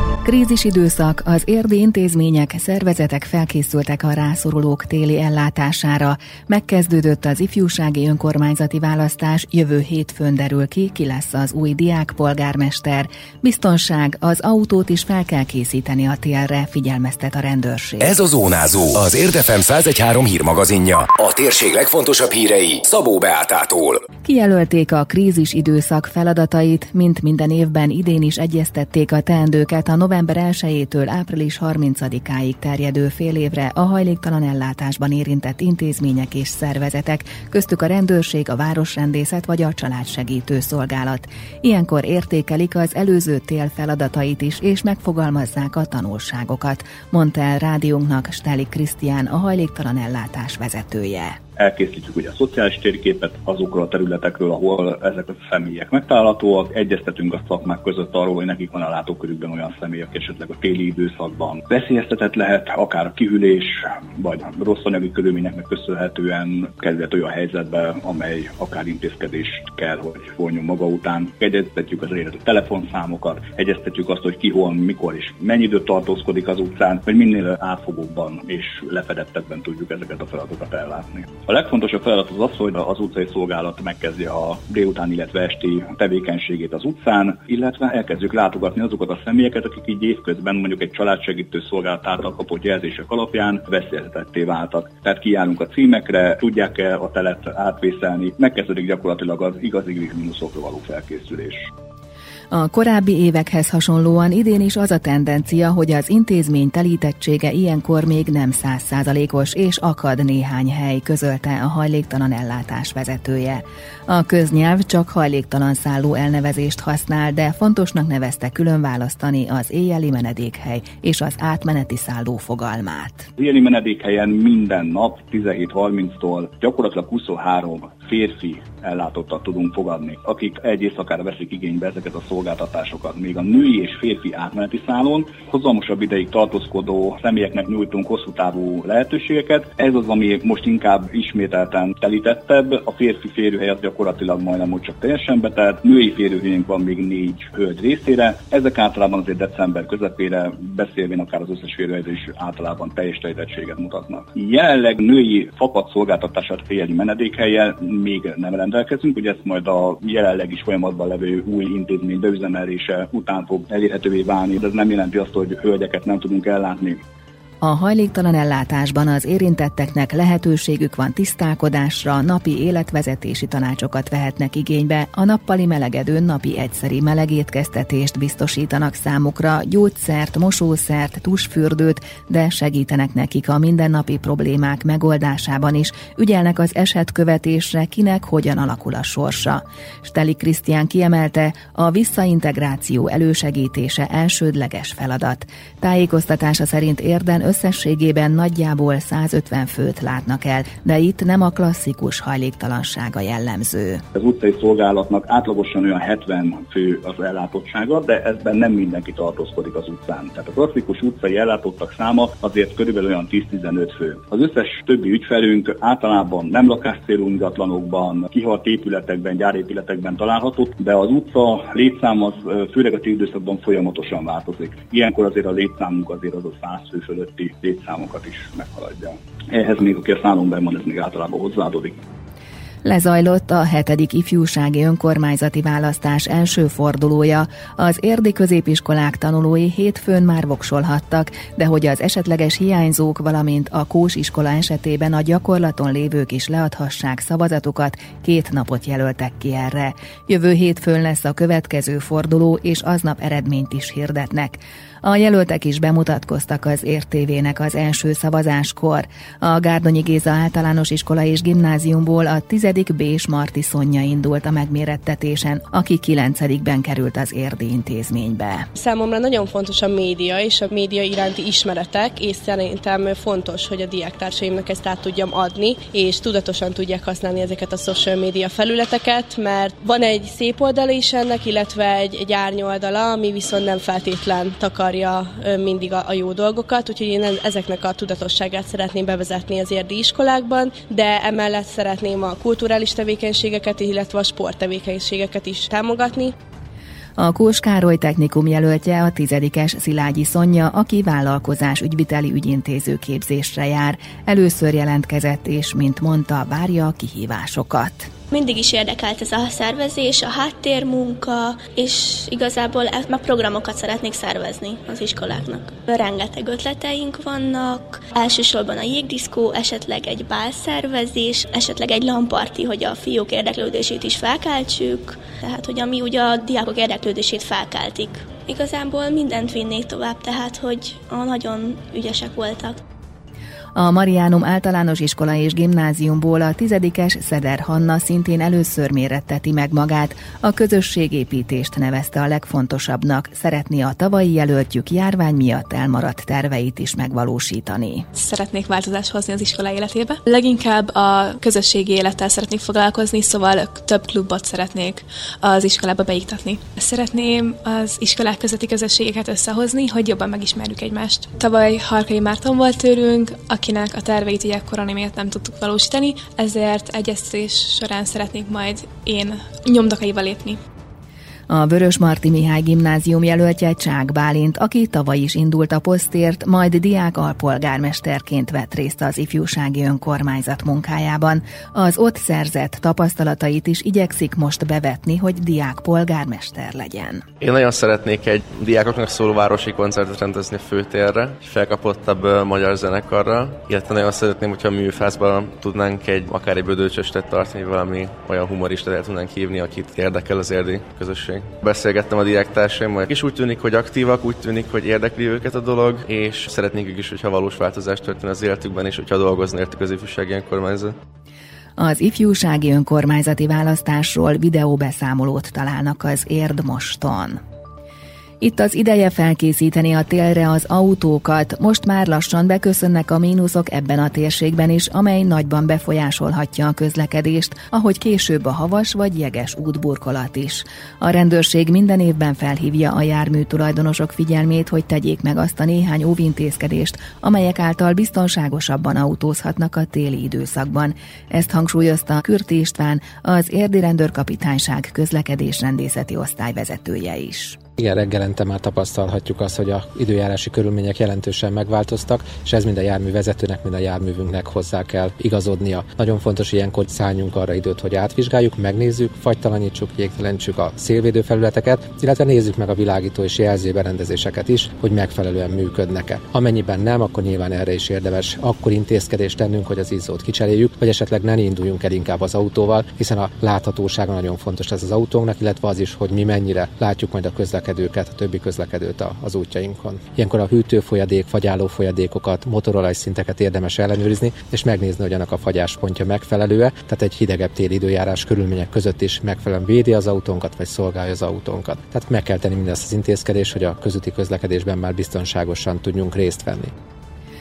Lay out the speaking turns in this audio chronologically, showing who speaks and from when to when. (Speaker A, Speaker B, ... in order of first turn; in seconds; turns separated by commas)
Speaker A: 0.2-18.1, Speaker B: 18.1-24.0, Speaker A: 24.2-51.4, Speaker C: 51.6-101.7, Speaker A: 102.5-123.3, Speaker C: 123.4-167.0, Speaker A: 167.6-204.0, Speaker C: 204.2-232.0, Speaker A: 232.8-268.7, Speaker D: 268.8-296.3, Speaker A: 297.2-308.1, Speaker E: 308.3-332.8, Speaker A: 333.8-348.1, Speaker F: 348.1-370.6, Speaker A: 371.5-387.2, Speaker G: 387.4-411.0, Speaker A: 411.8-417.4, Speaker A: 418.4-447.6, Speaker H: 447.8-496.7